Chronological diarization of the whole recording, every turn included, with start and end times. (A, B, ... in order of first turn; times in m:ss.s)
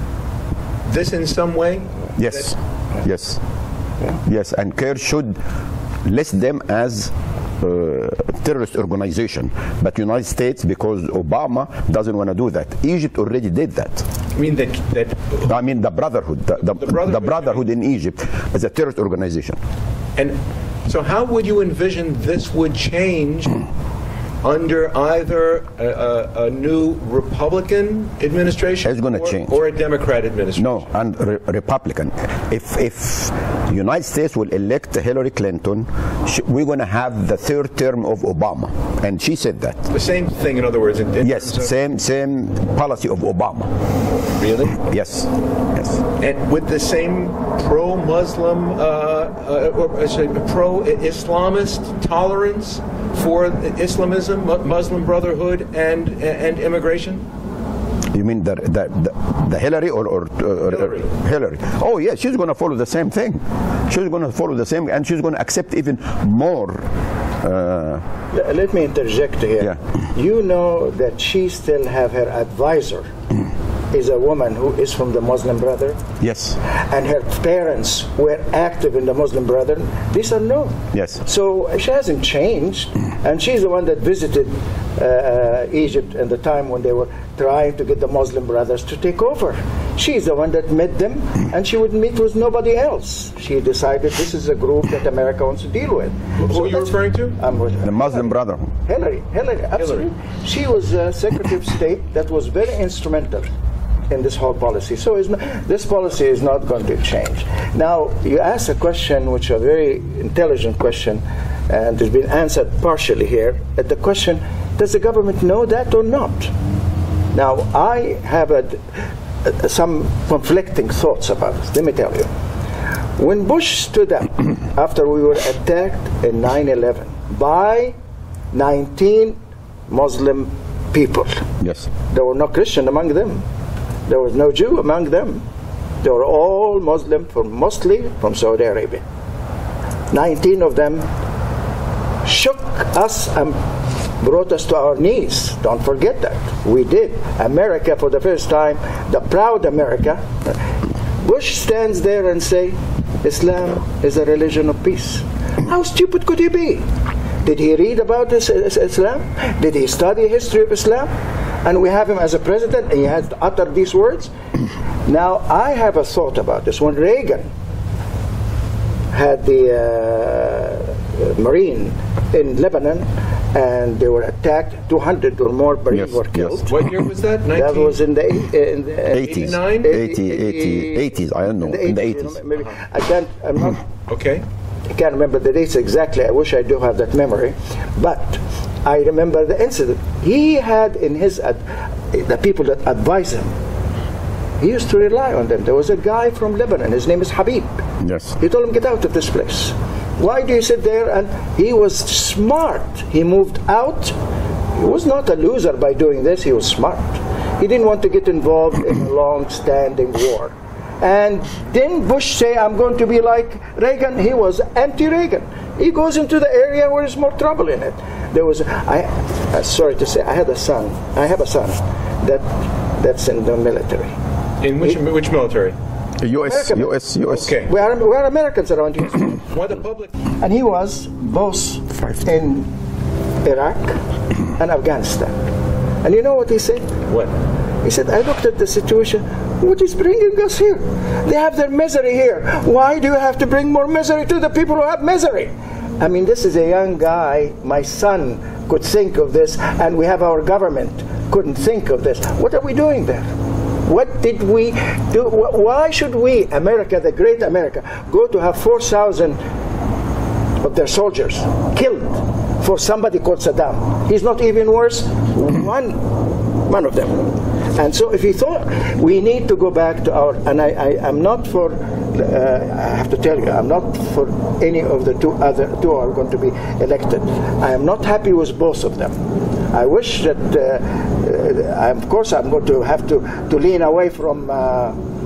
0:00.8-0:02.5 A
0:02.2-0:03.4 B
0:04.2-0:05.4 B
0:06.0-0:14.0 B
0:14.3-0:15.5 A
0:15.5-0:19.6 B
0:16.6-0:17.6 A
0:20.2-0:23.6 A
0:24.4-0:30.8 A
0:28.8-0:29.6 B
0:30.6-0:39.9 B
0:39.9-0:41.7 A
0:41.2-0:43.7 B
0:44.4-0:44.8 A
0:44.7-0:46.0 B
0:46.2-0:57.3 A
0:58.1-1:06.8 B
1:00.7-1:01.1 A
1:07.4-1:08.0 B
1:08.3-1:13.1 C
1:13.9-1:16.0 C
1:16.2-1:16.6 B
1:16.7-1:38.3 C
1:20.9-1:21.2 B
1:36.4-1:37.4 A
1:37.8-1:38.7 B
1:38.8-1:43.5 C
1:39.8-1:40.1 A
1:44.1-1:56.5 C
1:57.3-2:02.3 C
2:03.2-2:07.9 C
2:08.5-2:11.4 C
2:11.6-2:11.9 B
2:12.1-2:13.4 C
2:14.1-2:15.4 C
2:16.0-2:19.0 C
2:20.1-2:21.0 C
2:22.2-2:23.6 C
2:24.2-2:30.6 C
2:31.2-2:36.8 C
2:37.4-2:41.1 C
2:41.6-2:44.3 C
2:45.0-2:47.5 C
2:49.1-2:56.7 C
2:55.9-2:56.7 B
2:56.7-2:58.0 A
2:57.5-3:01.0 C
2:59.1-3:02.4 B
2:59.2-3:00.0 A
3:01.6-3:03.8 C
3:04.1-3:04.4 A
3:04.9-3:13.5 C
3:14.6-3:17.8 C
3:18.0-3:18.4 B
3:18.4-3:24.1 C
3:24.8-3:44.1 C
3:44.6-3:45.8 A
3:46.2-3:47.6 B
3:46.4-3:47.0 C
3:47.3-3:47.7 A
3:47.6-3:49.4 C
3:49.5-3:50.1 A
3:50.4-3:52.7 C
3:53.4-3:54.0 C
3:54.6-3:55.3 C
3:56.0-3:56.9 C
3:57.1-3:57.3 A
3:57.8-4:13.3 C
4:13.8-4:19.4 C
4:20.6-4:26.1 C
4:26.7-4:39.2 C
4:39.7-4:45.0 C